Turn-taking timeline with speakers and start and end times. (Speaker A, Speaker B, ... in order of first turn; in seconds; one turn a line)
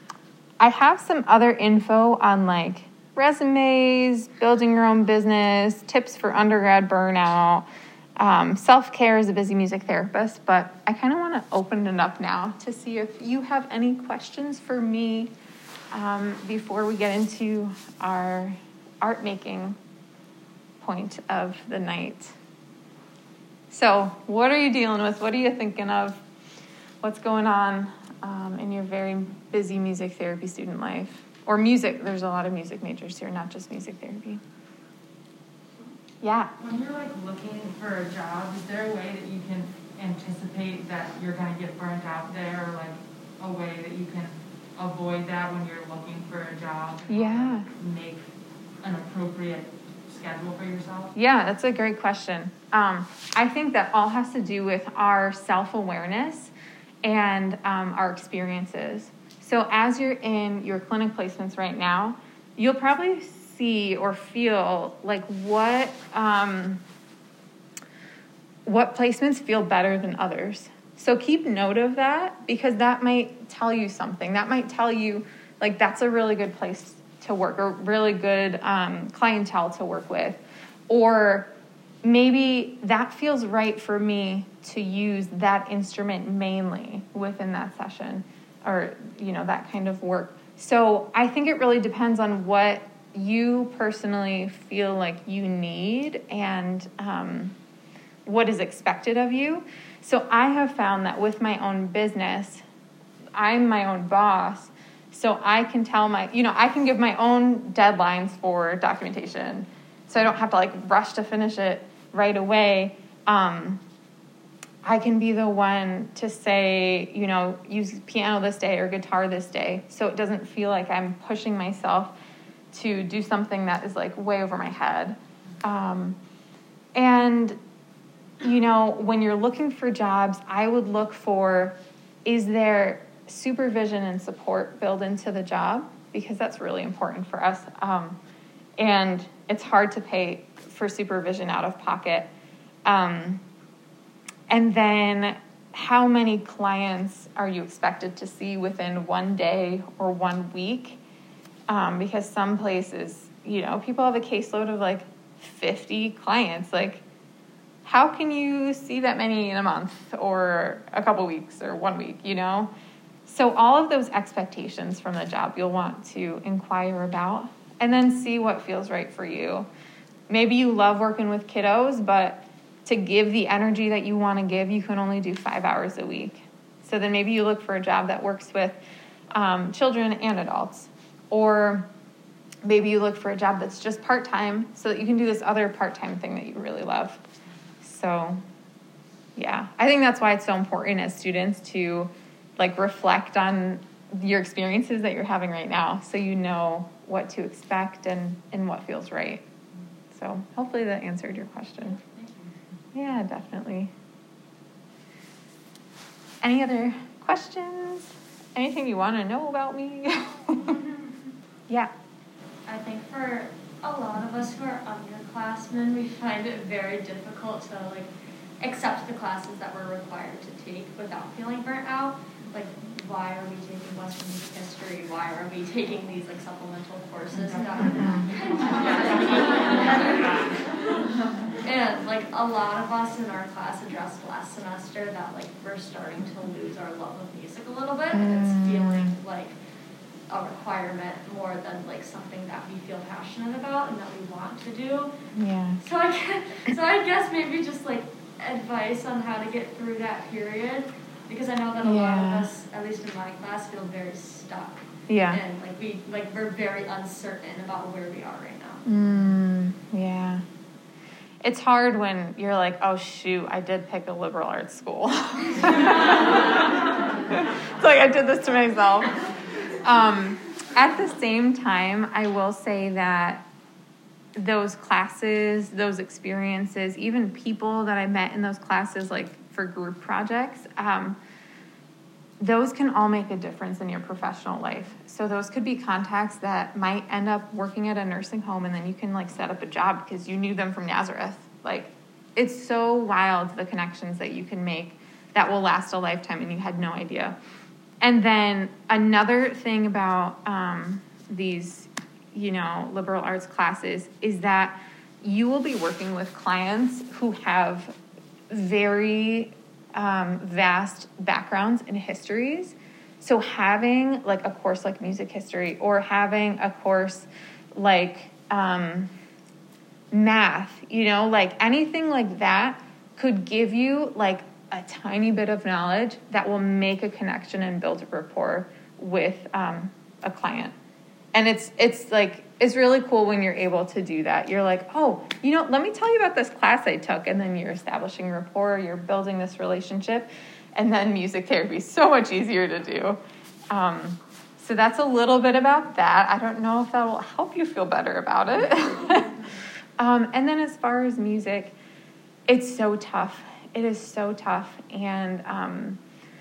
Speaker A: 0.6-15.3
Speaker A: 15.9-19.8
Speaker A: 20.8-22.3
Speaker A: 23.7-26.2
Speaker A: 27.0-34.4
Speaker A: 36.2-36.5
Speaker B: 36.6-48.2
Speaker A: 47.1-47.7
Speaker B: 48.8-51.1
Speaker A: 51.1-56.5
Speaker A: 57.0-66.8
Speaker A: 68.7-81.5
Speaker A: 82.0-97.5
Speaker A: 98.2-102.6
Speaker A: 103.3-113.8
Speaker A: 114.8-122.1
Speaker A: 122.7-126.2
Speaker A: 126.9-127.6
Speaker A: 128.4-138.2
Speaker A: 138.8-142.3
Speaker A: 142.8-143.4
Speaker A: 144.5-151.0
Speaker A: 151.7-157.0
Speaker A: 157.8-162.7
Speaker A: 163.2-169.7
Speaker A: 170.3-178.8
Speaker A: 179.3-181.9
Speaker A: 182.6-187.2
Speaker A: 187.8-188.4
Speaker A: 189.3-199.4
Speaker A: 200.1-202.0
Speaker A: 202.9-203.9
Speaker A: 206.4-210.8
Speaker C: 212.7-218.1
Speaker C: 218.6-230.5
Speaker A: 227.8-228.2
Speaker C: 231.6-239.5
Speaker A: 238.1-239.1
Speaker C: 240.3-245.2
Speaker A: 245.3-245.8
Speaker C: 245.8-258.8
Speaker A: 251.8-252.5
Speaker A: 255.1-255.4
Speaker A: 258.9-260.4
Speaker A: 261.4-266.7
Speaker A: 267.3-269.1
Speaker A: 269.8-273.4
Speaker A: 274.4-281.2
Speaker A: 282.4-297.4
Speaker A: 298.0-307.9
Speaker A: 308.5-319.1
Speaker A: 320.1-330.7
Speaker A: 331.3-343.2
Speaker A: 343.7-349.4
Speaker A: 350.0-351.7
Speaker A: 352.5-356.0